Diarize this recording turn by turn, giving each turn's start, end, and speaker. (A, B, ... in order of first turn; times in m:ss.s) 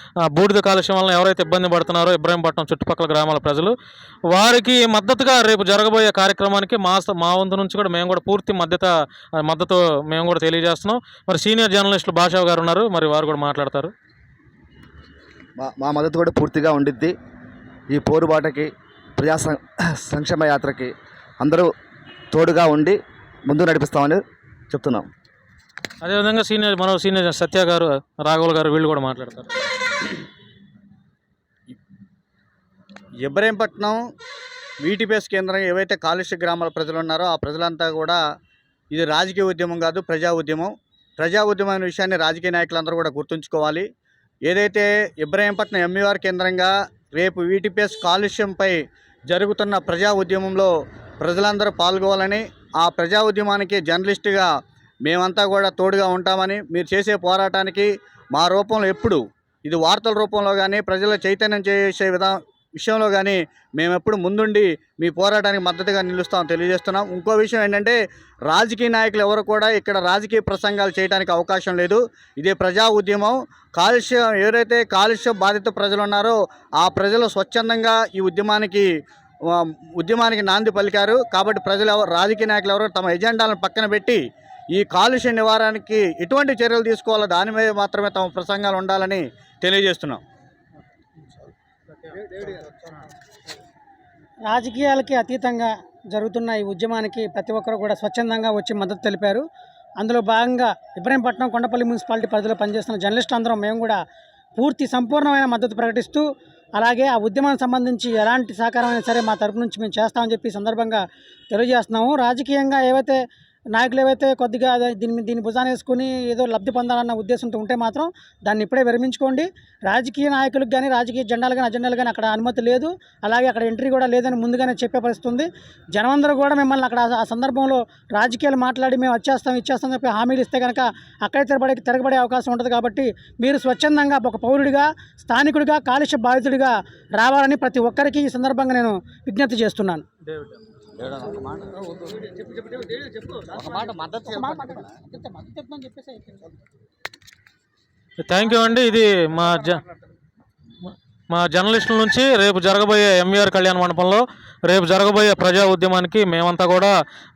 0:00.3-0:03.7 A
0:04.3-0:13.9 A
0:15.6-0:17.1 B
0:17.9-0:21.7 B
0:22.3-0:25.1 B
0:26.0-0:29.5 A
0:33.2-0:34.0 C
0:34.8-0:38.2 C
0:38.9-0:43.9 C
0:44.5-0:48.8 C
0:49.3-0:50.7 C
0:51.2-0:54.5 C
0:55.0-1:18.9 C
1:19.5-1:24.2 C
1:24.7-1:30.2 C
1:34.5-1:39.4 D
1:40.0-1:44.0 D
1:44.6-1:53.2 D
1:53.7-2:20.1 D
2:21.0-2:21.9 B
2:23.7-2:24.5 B
2:24.2-2:26.5 D
2:28.3-2:29.8 A
2:31.3-2:36.9 A